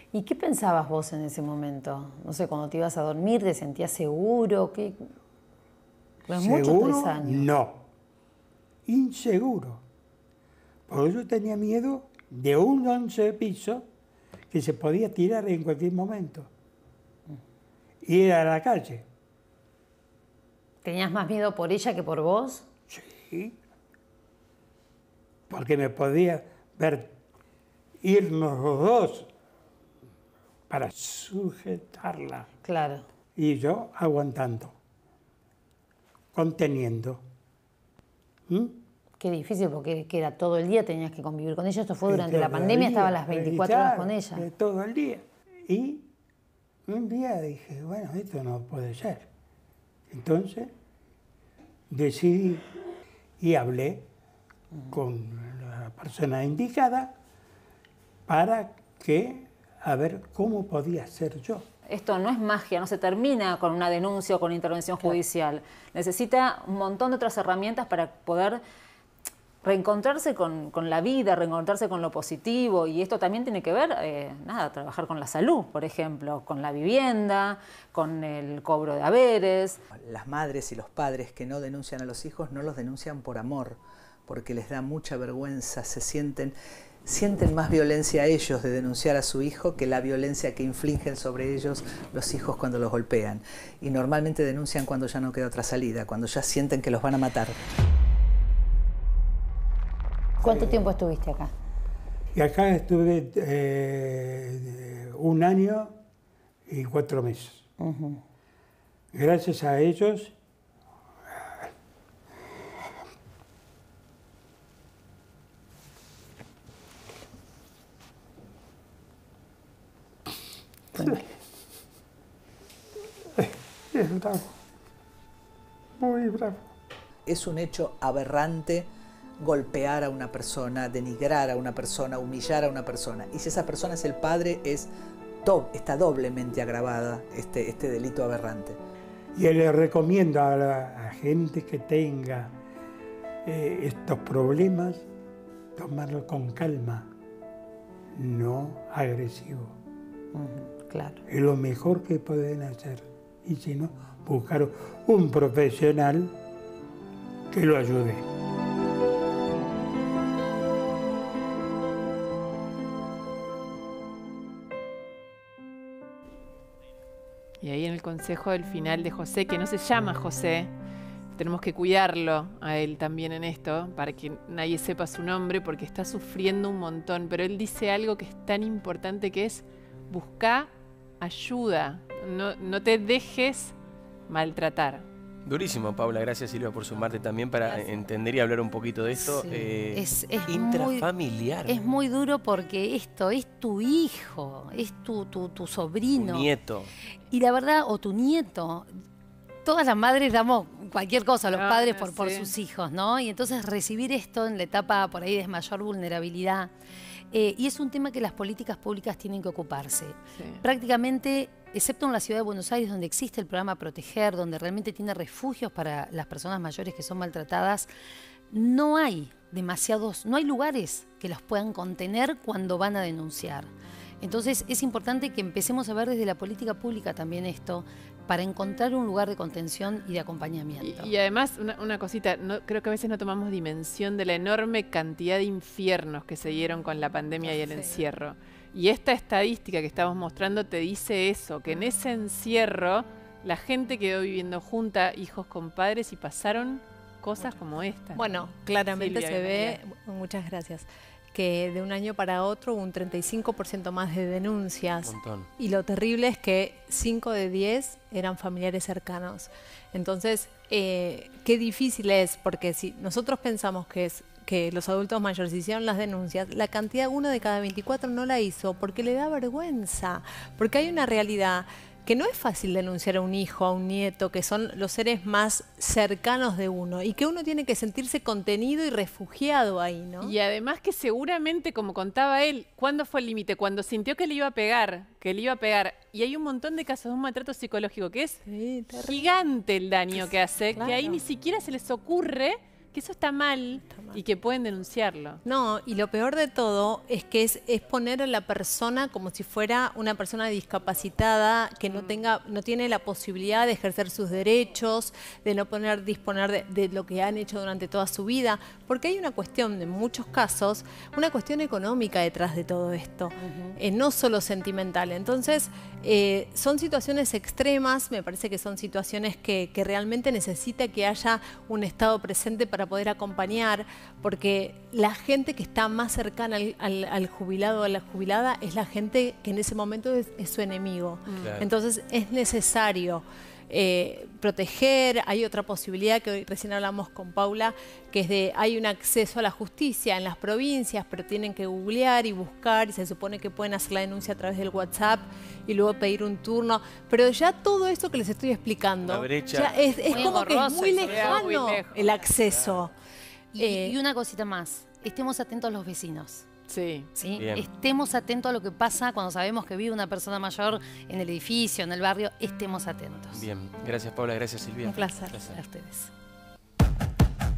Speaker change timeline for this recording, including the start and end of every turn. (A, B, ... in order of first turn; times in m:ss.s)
0:00.1-0:04.9 A
0:06.3-0:07.5 A
0:06.3-0:07.8 B
0:08.9-0:09.8 B
0:10.9-0:13.8 B
0:14.5-0:16.5 B
0:18.0-0:19.0 B
0:20.8-0:22.7 A
0:22.9-0:23.6 B
0:25.5-0:27.1 B
0:28.0-0:29.3 B
0:30.7-0:32.5 B
0:32.6-0:33.1 A
0:33.4-0:34.8 B
0:36.3-0:37.2 B
0:38.5-0:38.8 B
0:39.2-0:44.4 A
0:42.1-0:46.1 B
0:46.9-0:49.3 B
0:50.1-0:50.7 B
0:51.9-0:52.6 B
0:53.4-0:54.1 B
0:54.9-0:57.1 B
0:58.3-1:01.7 B
1:01.9-1:08.6 C
1:09.6-1:19.8 C
1:20.0-1:26.5 D
1:27.1-1:37.6 D
1:40.4-1:41.5 A
1:42.4-1:46.0 B
1:46.7-1:47.6 B
1:47.8-1:48.2 A
1:49.1-1:50.4 B
2:00.9-2:01.2 A
2:03.4-2:04.5 B
2:06.0-2:06.6 B
2:07.2-2:08.9 D
2:09.4-2:14.9 D
2:15.4-2:18.8 D
2:19.4-2:22.6 B
2:23.4-2:25.1 B
2:25.8-2:27.1 B
2:28.2-2:29.8 B
2:30.3-2:31.2 A
2:31.3-2:36.4 B
2:37.5-2:38.2 B
2:47.6-2:50.7 E
2:51.4-3:03.8 E
3:04.3-3:05.0 E
3:05.4-3:11.8 F
3:09.2-3:11.1 A
3:11.6-3:16.5 A
3:16.1-3:16.9 F
3:17.3-3:18.9 A
3:19.6-3:26.7 A
3:21.5-3:22.5 E
3:27.3-3:37.9 A
3:30.4-3:30.6 E
3:38.5-3:43.7 A
3:44.2-3:51.1 A
3:50.8-4:09.8 E
3:57.4-3:58.0 G
4:08.1-4:40.3 G
4:15.0-4:15.5 F
4:40.2-4:55.4 E
4:48.4-4:49.2 G
4:50.1-4:51.2 G
4:53.8-4:54.2 G
4:55.5-5:52.9 G
5:01.9-5:02.2 E
5:13.4-5:13.8 A
5:31.3-5:31.6 E
5:31.4-5:31.7 F
5:49.1-5:50.2 F
5:50.1-5:51.5 A
5:51.0-5:52.4 E
5:52.5-5:52.8 F
5:53.5-5:56.5 A
5:53.6-5:54.0 G
5:56.7-5:57.1 E
5:57.1-6:03.5 A
5:57.4-5:57.6 F
6:03.3-6:05.6 F
6:04.8-6:06.0 G
6:05.5-6:05.9 A